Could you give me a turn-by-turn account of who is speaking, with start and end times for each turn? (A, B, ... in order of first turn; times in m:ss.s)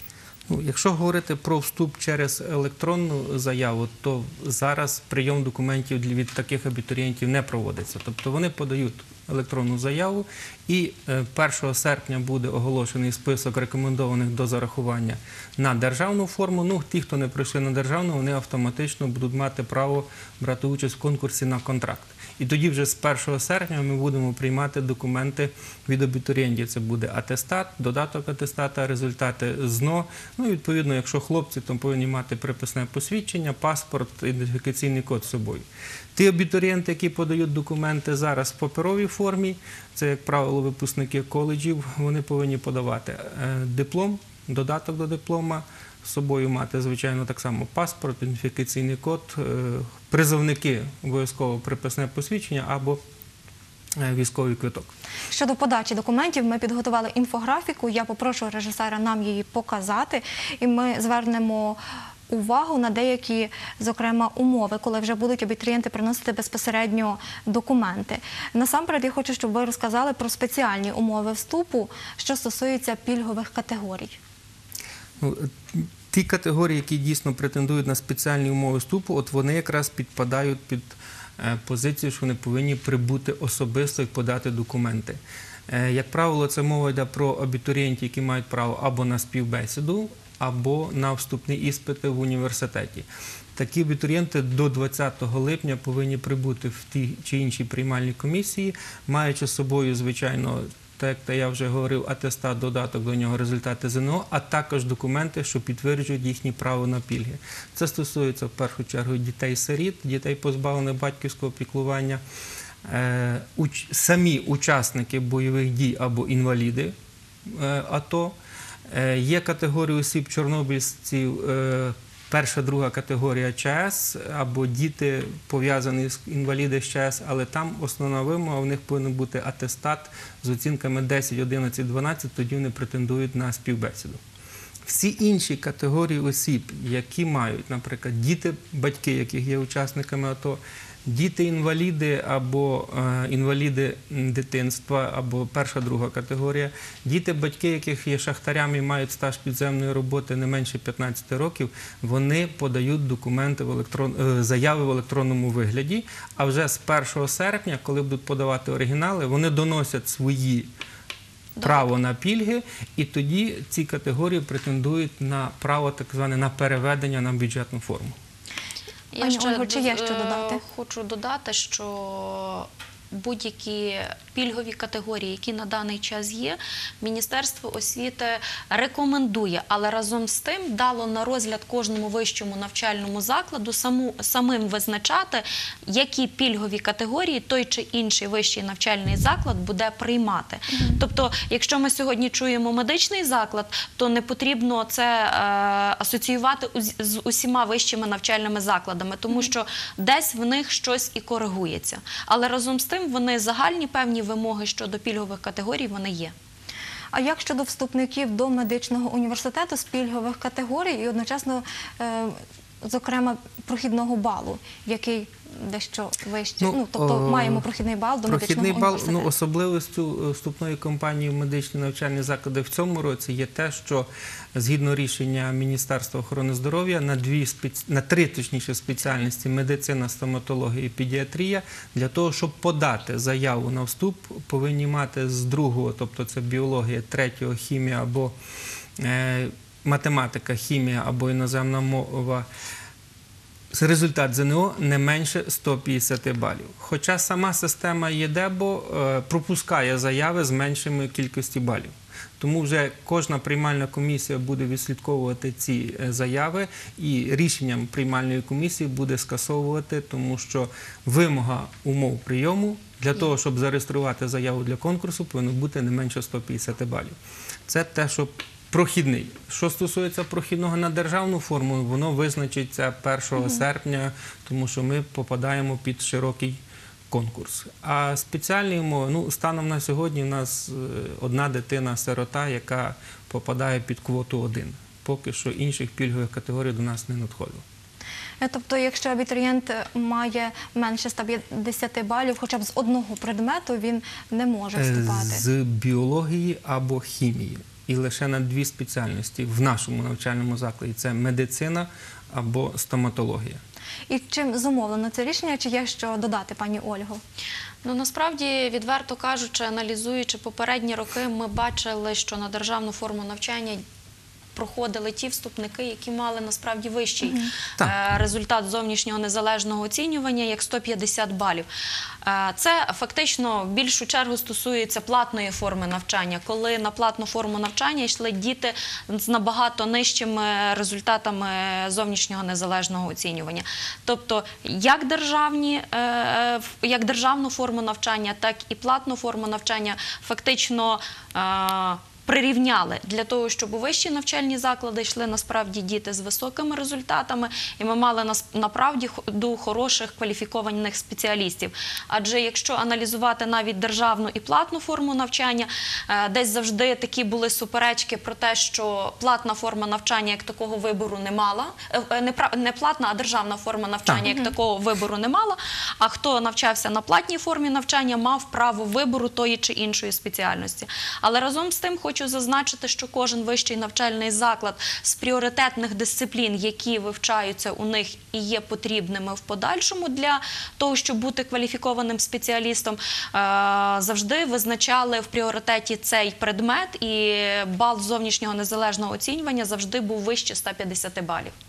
0:00.5-0:53.0 A
0:54.0-0:54.9 A
0:55.3-1:14.2 B
1:15.2-1:52.2 A
1:52.8-1:56.9 A
1:57.5-1:58.3 A
1:58.9-2:14.2 A
2:14.8-2:40.7 A
2:41.6-2:41.9 C
2:41.6-2:48.1 A
2:49.1-3:26.3 C
2:49.2-2:50.6 B
3:10.7-3:11.0 B
3:27.1-3:39.3 B
3:36.6-3:37.6 A
3:38.2-3:58.3 A
3:59.0-4:02.5 A
4:03.7-4:27.1 A
4:27.7-4:36.6 A
4:37.1-4:47.6 A
4:48.4-4:55.4 B
4:54.8-5:03.6 A
5:04.1-5:07.2 B
5:07.8-5:13.8 C
5:14.5-5:21.7 C
5:17.2-5:17.5 B
5:22.2-6:31.5 C
6:04.3-6:04.5 B